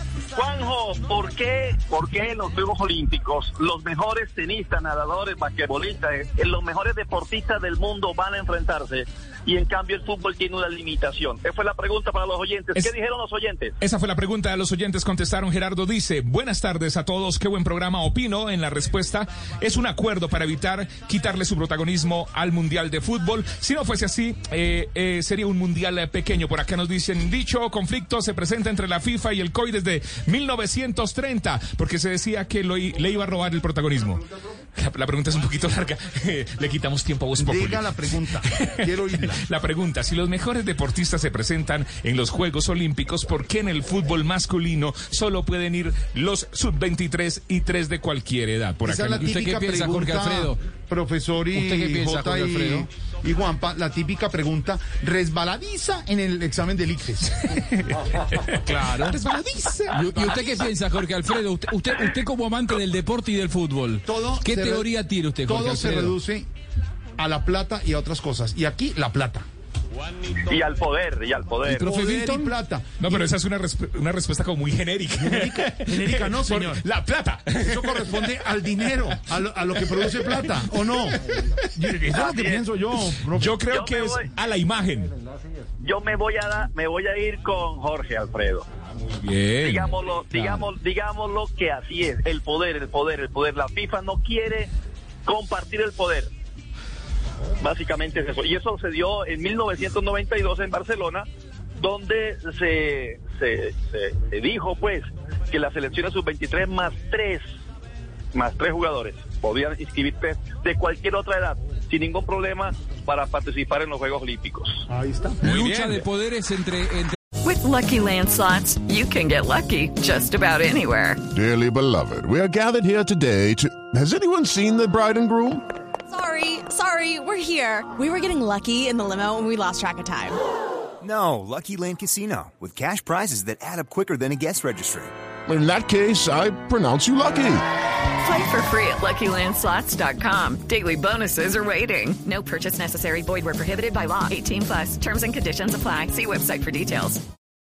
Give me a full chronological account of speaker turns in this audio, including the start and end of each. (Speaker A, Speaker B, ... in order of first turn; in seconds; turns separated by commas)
Speaker A: 0.3-13.8, Speaker B: 13.8-34.2, Speaker B: 34.8-49.1, Speaker C: 37.4-39.4, Speaker D: 48.9-50.6, Speaker C: 48.9-57.5, Speaker D: 51.5-52.9, Speaker B: 58.3-60.0, Speaker D: 58.6-59.2, Speaker D: 59.9-66.2, Speaker C: 60.2-60.4, Speaker C: 64.0-64.9, Speaker C: 65.4-66.5, Speaker C: 67.2-69.5, Speaker A: 70.5-72.0, Speaker C: 71.7-73.3, Speaker D: 71.7-72.5, Speaker B: 73.0-79.2, Speaker C: 75.2-76.9, Speaker C: 77.6-81.2, Speaker B: 79.8-80.6, Speaker C: 81.8-83.6, Speaker A: 82.2-82.7, Speaker B: 83.1-85.1, Speaker A: 83.7-84.3, Speaker A: 85.8-88.7, Speaker B: 89.0-89.9, Speaker A: 89.6-94.7, Speaker A: 95.3-96.3, Speaker A: 97.6-101.3, Speaker A: 101.8-107.4, Speaker A: 108.3-114.9, Speaker C: 114.9-115.4, Speaker D: 115.4-117.2, Speaker B: 115.4-116.0, Speaker E: 117.4-121.2, Speaker F: 121.3-125.6, Speaker G: 126.1-130.4, Speaker H: 131.0-135.1, Speaker F: 135.5-137.6, Speaker E: 138.2-147.2